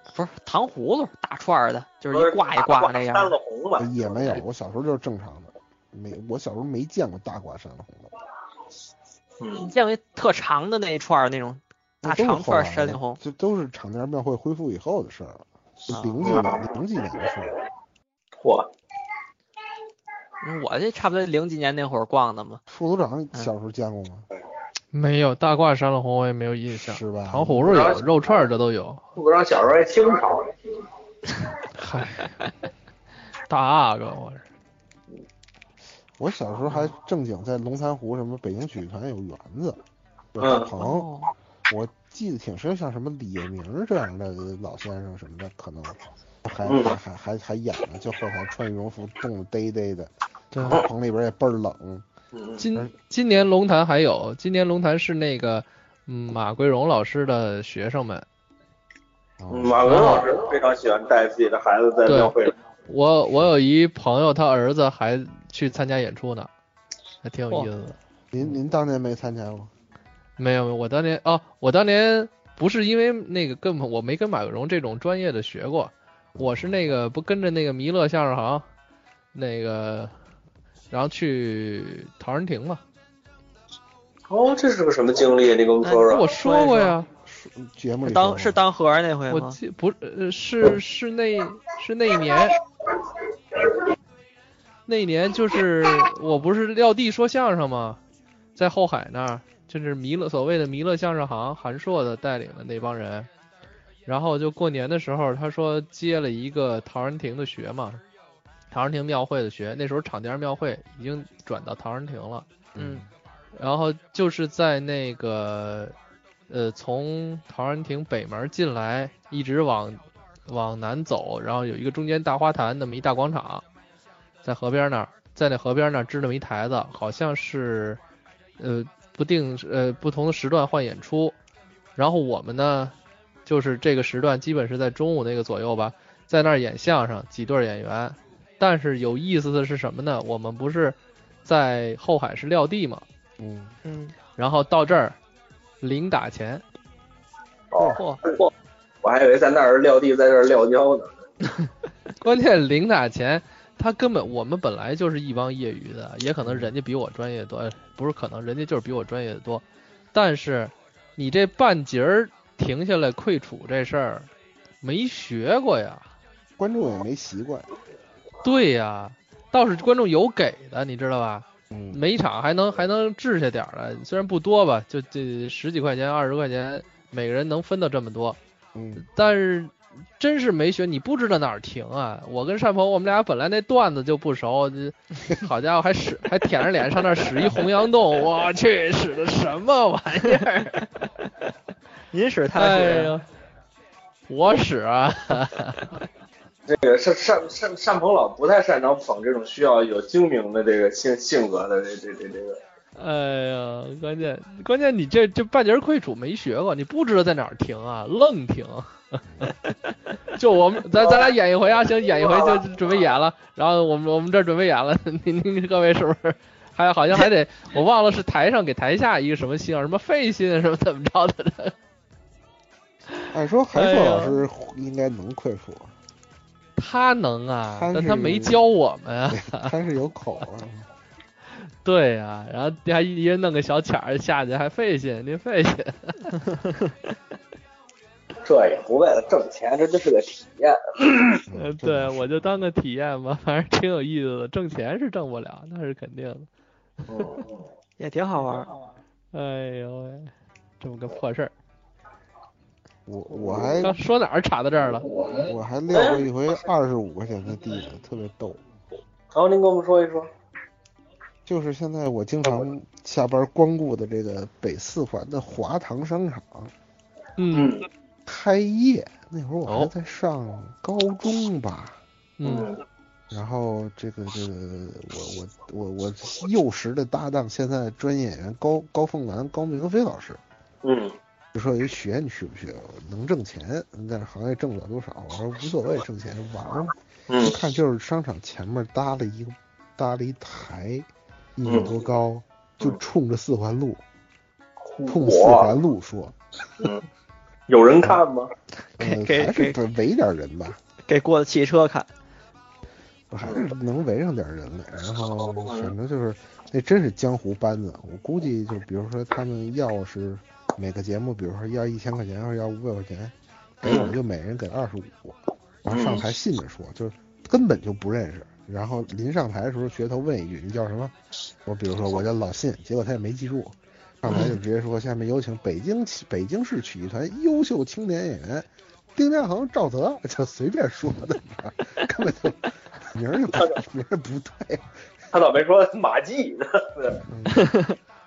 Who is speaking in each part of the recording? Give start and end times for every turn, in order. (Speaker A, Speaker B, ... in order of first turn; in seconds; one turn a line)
Speaker A: 0.1-3.3
Speaker B: 2.1-4.4
Speaker C: 3.8-8.1
Speaker B: 9.4-9.7
Speaker A: 9.6-13.2
Speaker C: 12.0-17.6
Speaker A: 15.9-16.2
Speaker B: 16.2-16.7
Speaker B: 18.4-18.7
Speaker A: 20.4-22.6
Speaker C: 22.7-24.2
Speaker D: 24.9-29.0
Speaker C: 26.7-28.1
Speaker B: 27.7-28.3
Speaker B: 29.1-30.5
Speaker D: 31.8-32.5
Speaker D: 33.5-34.4
Speaker C: 36.2-39.8
Speaker C: 40.3-41.1
Speaker B: 40.4-40.7
Speaker A: 40.8-41.3
Speaker C: 41.7-52.0
Speaker B: 46.6-46.9
Speaker D: 50.5-50.8
Speaker B: 52.3-52.6
Speaker D: 52.6-58.2
Speaker C: 59.4-60.0
Speaker B: 59.5-62.5
Speaker D: 59.8-60.3
Speaker D: 62.0-62.3
Speaker D: 62.9-66.5
Speaker D: 67.2-68.0
Speaker C: 68.3-69.7
Speaker D: 70.4-78.7
Speaker C: 76.3-76.8
Speaker D: 79.3-80.1
Speaker D: 80.9-82.8
Speaker B: 84.3-86.3
Speaker A: 85.8-86.9
Speaker D: 86.0-87.1
Speaker C: 87.2-88.6
Speaker A: 88.0-89.6
Speaker D: 89.3-92.6
Speaker D: 94.9-98.0
Speaker D: 98.5-103.3
Speaker D: 104.1-108.0
Speaker D: 108.7-112.5
Speaker C: 112.7-113.1
Speaker A: 112.8-113.0
Speaker D: 113.6-115.9
Speaker D: 116.5-123.6
Speaker D: 124.4-128.0
Speaker D: 128.6-131.3
Speaker D: 132.0-132.9
Speaker D: 133.4-143.0
Speaker C: 143.4-143.7
Speaker A: 143.8-144.1
Speaker D: 144.4-145.2
Speaker D: 145.8-146.6
Speaker B: 147.7-148.5
Speaker B: 149.0-151.2
Speaker D: 152.2-164.3
Speaker C: 156.4-156.7
Speaker D: 164.8-166.1
Speaker C: 166.6-167.7
Speaker D: 168.4-178.4
Speaker C: 171.7-172.0
Speaker C: 178.7-179.1
Speaker D: 179.0-190.8
Speaker A: 190.2-191.1
Speaker A: 192.1-193.1
Speaker D: 192.6-193.2
Speaker D: 194.3-196.0
Speaker B: 196.7-202.6
Speaker D: 202.9-209.5
Speaker D: 210.3-221.7
Speaker B: 211.0-211.3
Speaker B: 212.1-213.1
Speaker C: 223.3-225.9
Speaker D: 223.7-224.4
Speaker D: 226.8-229.7
Speaker C: 227.7-228.6
Speaker C: 229.3-230.8
Speaker D: 231.6-236.5
Speaker B: 238.4-241.4
Speaker C: 241.5-242.5
Speaker D: 241.6-246.5
Speaker B: 247.1-247.6
Speaker A: 248.0-248.7
Speaker D: 249.3-251.5
Speaker C: 253.1-253.9
Speaker B: 253.4-253.8
Speaker D: 253.8-255.1
Speaker B: 255.1-256.2
Speaker C: 255.4-258.6
Speaker B: 259.3-260.3
Speaker C: 261.4-266.7
Speaker D: 267.4-267.7
Speaker B: 267.5-267.9
Speaker C: 268.2-272.0
Speaker D: 272.4-272.7
Speaker B: 272.4-272.8
Speaker C: 273.3-280.4
Speaker B: 280.8-281.1
Speaker C: 281.5-294.0
Speaker B: 287.3-287.6
Speaker B: 291.6-291.9
Speaker B: 294.9-295.7
Speaker C: 295.1-296.3
Speaker B: 297.7-298.5
Speaker A: 299.0-299.8
Speaker C: 299.0-300.8
Speaker A: 301.1-302.1
Speaker C: 303.3-321.1
Speaker B: 305.4-305.9
Speaker B: 313.8-314.1
Speaker B: 315.9-316.2
Speaker C: 321.6-334.9
Speaker B: 335.3-337.2
Speaker C: 337.2-337.7
Speaker A: 337.5-337.9